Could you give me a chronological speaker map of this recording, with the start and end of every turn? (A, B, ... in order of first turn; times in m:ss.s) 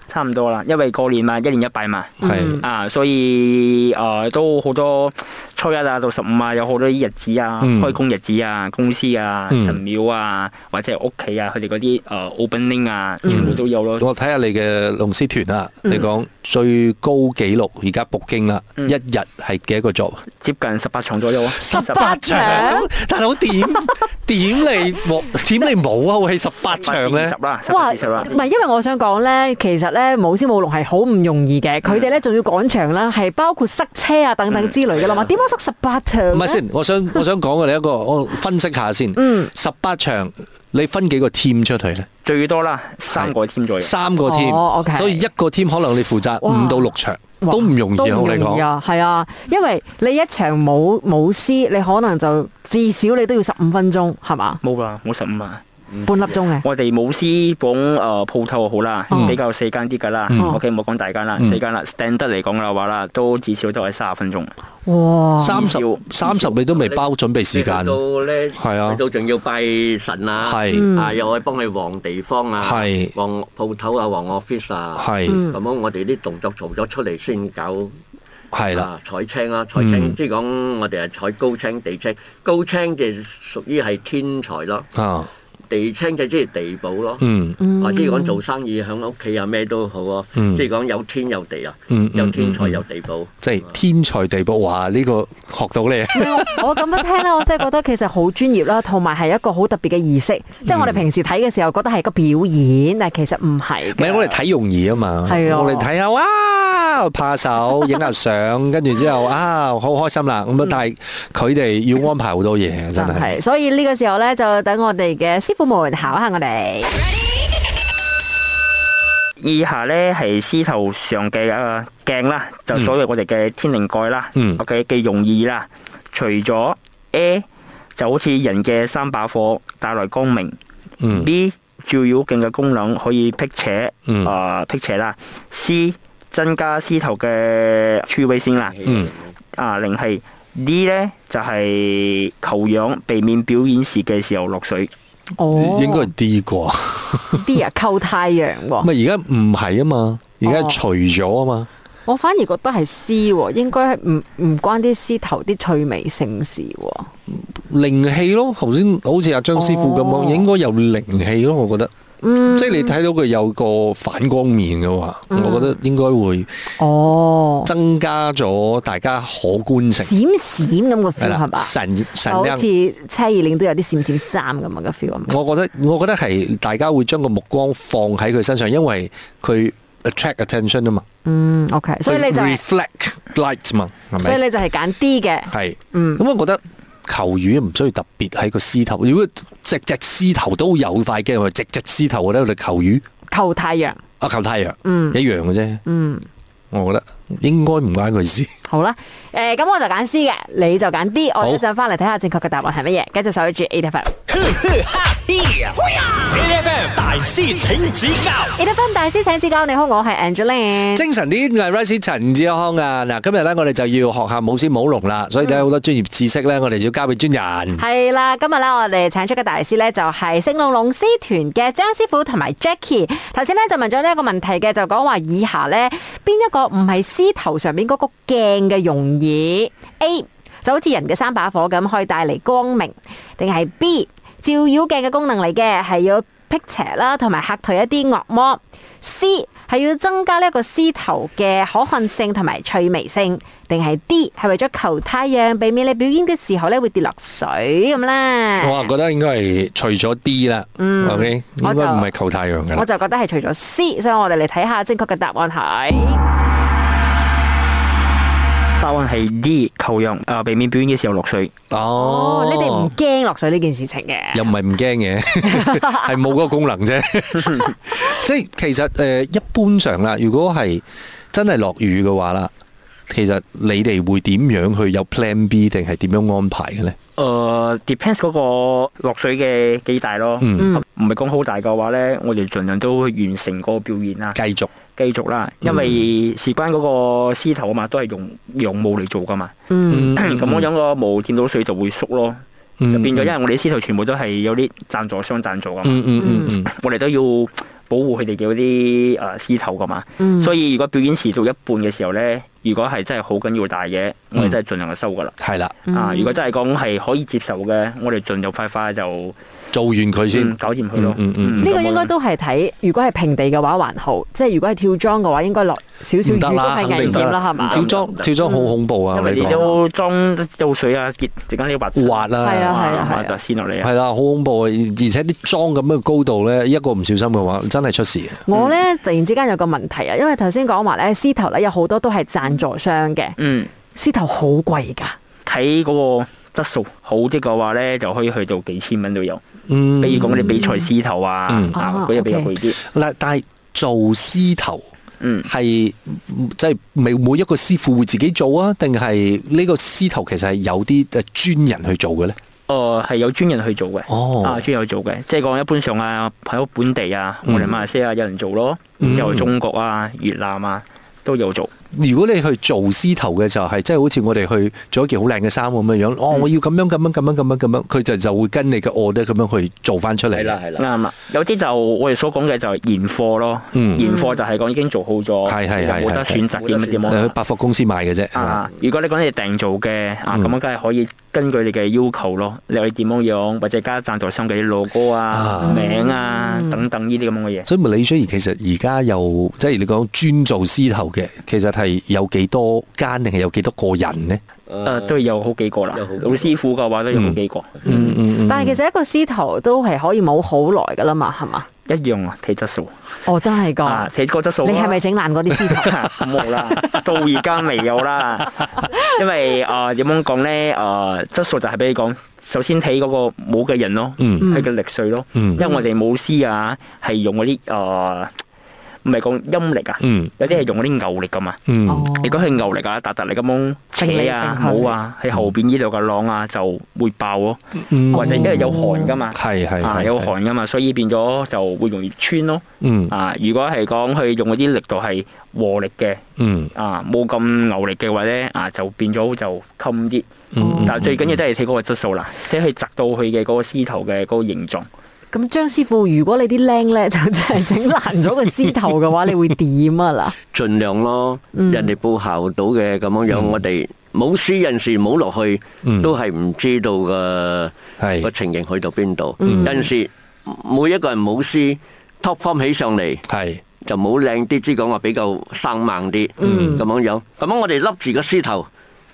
0:00.1-0:14.1 A
0:02.2-0:02.6 B
0:02.2-0:02.6 C
0:07.6-0:08.0 B
0:09.5-0:09.8 B
0:13.2-0:13.5 C
0:13.2-0:20.2 B
0:20.4-0:22.7 A
0:21.5-0:27.4 B
0:21.7-0:22.9 C
0:26.7-0:28.4 A
0:27.7-0:36.6 C
0:34.5-0:35.3 A
0:36.3-0:42.1 B
0:39.2-0:39.5 C
0:42.2-0:43.9 A
0:43.1-0:48.7 B
0:44.2-0:45.2 C
0:46.4-0:46.9 C
0:47.4-0:54.6 C
0:54.6-0:55.6 A
0:56.0-0:56.6 C
0:56.6-1:04.5 A
0:59.1-0:59.4 C
0:59.1-0:59.4 B
1:00.3-1:00.6 B
1:00.3-1:00.6 C
1:04.9-1:05.7 C
1:05.4-1:08.0 B
1:05.5-1:06.6 A
1:06.7-1:07.0 D
1:07.5-1:18.0 D
1:08.5-1:09.0 B
1:10.4-1:10.9 B
1:10.7-1:11.2 C
1:12.6-1:13.1 B
1:15.0-1:15.5 B
1:15.3-1:15.6 C
1:18.5-1:18.9 B
1:18.7-1:24.9 D
1:19.8-1:20.2 B
1:24.9-1:25.3 B
1:25.7-1:33.3 D
1:27.2-1:27.6 B
1:27.6-1:28.4 C
1:30.4-1:30.6 B
1:31.9-1:32.8 B
1:33.4-1:36.9 B
1:36.1-1:44.4 C
1:40.6-1:41.0 B
1:43.9-1:53.4 B
1:45.2-1:45.9 C
1:53.0-1:57.0 C
1:59.4-2:10.6 A
2:11.0-2:11.3 B
2:11.1-2:18.8 A
2:18.5-2:19.3 D
2:19.5-2:24.9 A
2:25.4-2:26.1 C
2:25.5-2:27.5 B
2:27.3-2:28.9 C
2:28.8-2:31.7 B
2:30.4-2:30.8 C
2:32.0-2:37.1 C
2:37.3-2:41.9 B
2:39.5-2:40.5 C
2:42.2-2:43.0 C
2:42.4-2:46.6 B
2:45.3-2:45.8 C
2:46.8-2:47.7 C
2:47.6-2:50.1 B
2:50.0-2:55.3 C
2:51.2-2:52.7 B
2:55.2-3:01.0 B
3:01.2-3:02.6 C
3:02.0-3:04.4 B
3:04.2-3:06.2 C
3:05.5-3:13.0 B
3:13.3-3:14.0 C
3:14.2-3:15.8 B
3:14.8-3:15.2 C
3:15.8-3:16.3 C
3:16.7-3:18.5 B
3:18.6-3:24.1 C
3:24.3-3:28.6 E
3:28.6-3:31.0 C
3:30.9-3:37.8 B
3:37.8-4:08.9 C
4:08.6-4:12.9 B
4:10.8-4:12.1 C
4:12.7-4:16.2 C
4:18.8-4:21.5 A
4:21.7-4:22.9 B
4:22.0-4:24.5 C
4:24.3-4:32.5 B
4:25.4-4:26.1 C
4:33.1-4:37.0 B
4:37.2-4:44.4 A
4:40.4-4:40.7 B
4:44.3-4:44.7 B
4:44.9-4:49.5 A
4:45.6-4:46.0 B
4:49.7-4:50.1 C
4:49.9-4:50.7 B
4:50.1-4:52.4 A
4:52.8-4:53.3 B
4:52.9-5:05.3 A
4:55.8-4:56.7 B
4:56.2-4:56.5 C
5:00.2-5:00.5 C
5:05.4-5:05.8 B
5:05.9-5:06.4 C
5:05.9-5:09.4 A
5:09.7-5:11.7 B
5:10.3-5:12.1 A
5:11.6-5:17.8 C
5:16.2-5:19.7 B
5:16.9-5:18.3 A
5:17.6-5:18.3 D
5:18.4-5:18.8 C
5:19.1-5:23.9 A
5:21.9-5:23.1 B
5:22.4-5:23.4 C
5:23.8-5:28.4 B
5:28.5-5:33.4 C
5:28.5-5:28.8 A
5:33.4-5:33.7 A
5:33.9-5:35.2 C
5:35.4-5:39.4 A
5:39.7-5:40.6 B
5:40.0-5:42.8 A
5:40.5-5:40.8 C
5:41.5-5:41.8 B
5:41.8-5:42.5 C
5:42.8-5:44.9 B
5:45.2-5:45.5 A
5:45.4-5:52.4 B
5:52.7-6:01.7 A
5:54.1-5:54.6 B
5:57.4-5:57.7 B
5:59.0-5:59.5 B
6:01.9-6:10.6 B
6:10.3-6:10.9 D
6:10.8-6:17.4 A
6:13.7-6:14.0 B
6:15.4-6:16.4 B
6:16.5-6:17.1 D
6:17.1-6:18.6 B
6:18.4-6:27.7 A
6:20.3-6:20.6 B
6:25.3-6:25.9 B
6:25.6-6:26.8 C
6:27.6-6:34.4 B
6:34.7-6:35.1 D
6:34.8-6:38.1 A
6:35.9-6:36.5 D
6:37.1-6:38.8 B
6:37.9-6:41.6 C
6:41.9-6:42.9 A
6:43.2-6:44.1 C
6:43.8-6:45.0 A
6:44.6-6:45.9 C
6:45.6-6:58.3 A
6:54.2-6:54.5 B
6:55.4-6:55.6 B
6:59.0-7:01.6 A
7:00.0-7:00.3 B
7:01.6-7:02.1 B
7:01.9-7:02.5 C
7:02.2-7:07.6 A
7:04.0-7:04.9 C
7:07.8-7:08.8 B
7:08.1-7:16.2 A
7:08.1-7:09.1 C
7:09.3-7:10.3 B
7:12.8-7:13.1 B
7:16.4-7:16.7 B
7:16.7-7:20.3 A
7:20.6-7:21.4 B
7:20.6-7:21.0 C
7:20.8-7:24.9 A
7:25.3-7:30.4 C
7:30.5-7:43.2 D
7:31.5-7:31.9 C
7:33.3-7:33.6 B
7:35.8-7:36.1 B
7:38.0-7:38.3 B
7:39.4-7:39.9 C
7:39.4-7:39.7 B
7:43.3-7:43.6 B
7:43.8-7:48.7 D
7:46.4-7:46.8 C
7:46.4-7:46.8 B